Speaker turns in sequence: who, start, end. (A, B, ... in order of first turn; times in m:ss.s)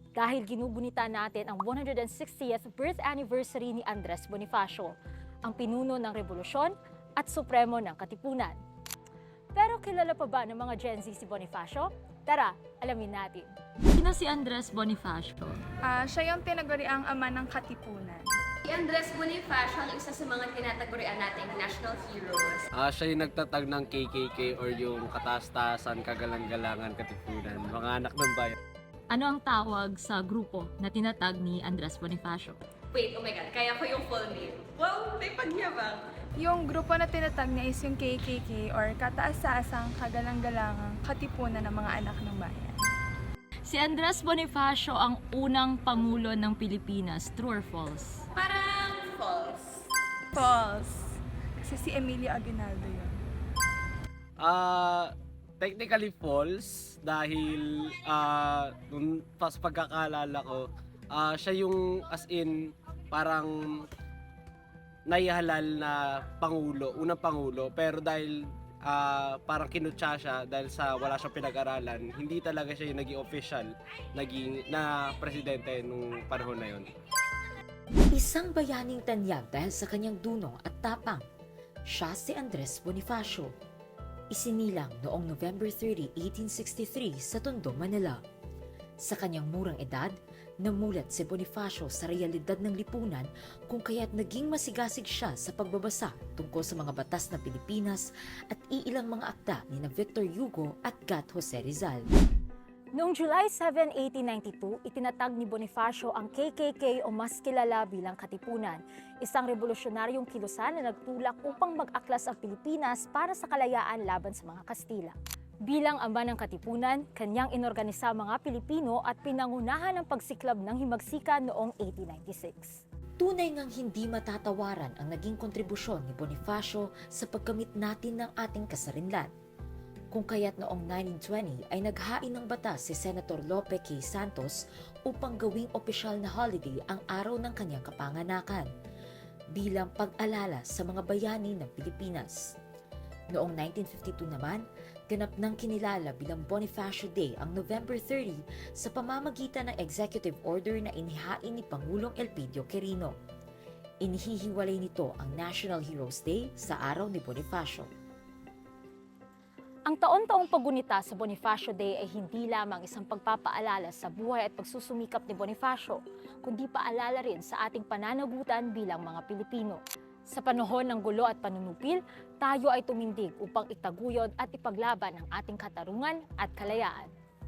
0:00.2-0:08.6 A
0:09.6-0:15.6 A
0:15.8-0:18.3 B
0:18.7-0:22.7 C
0:22.8-0:28.6 D
0:29.1-0:32.6 A
0:32.9-0:36.1 C
0:36.4-0:42.8 B
0:43.7-0:48.2 A
0:48.4-0:49.8 C
0:50.3-0:53.2 B
0:54.4-1:03.9 D
1:05.1-1:16.9 D
1:18.1-1:21.2 E
1:21.9-1:23.5 E
1:24.3-1:28.2 E
1:29.0-1:42.1 E
1:43.0-2:02.8 A
2:03.2-2:09.3 E
2:10.1-2:18.7 E
2:19.5-2:22.6 E
2:23.3-2:33.2 E
2:34.0-2:37.9 E
2:39.9-2:57.1 A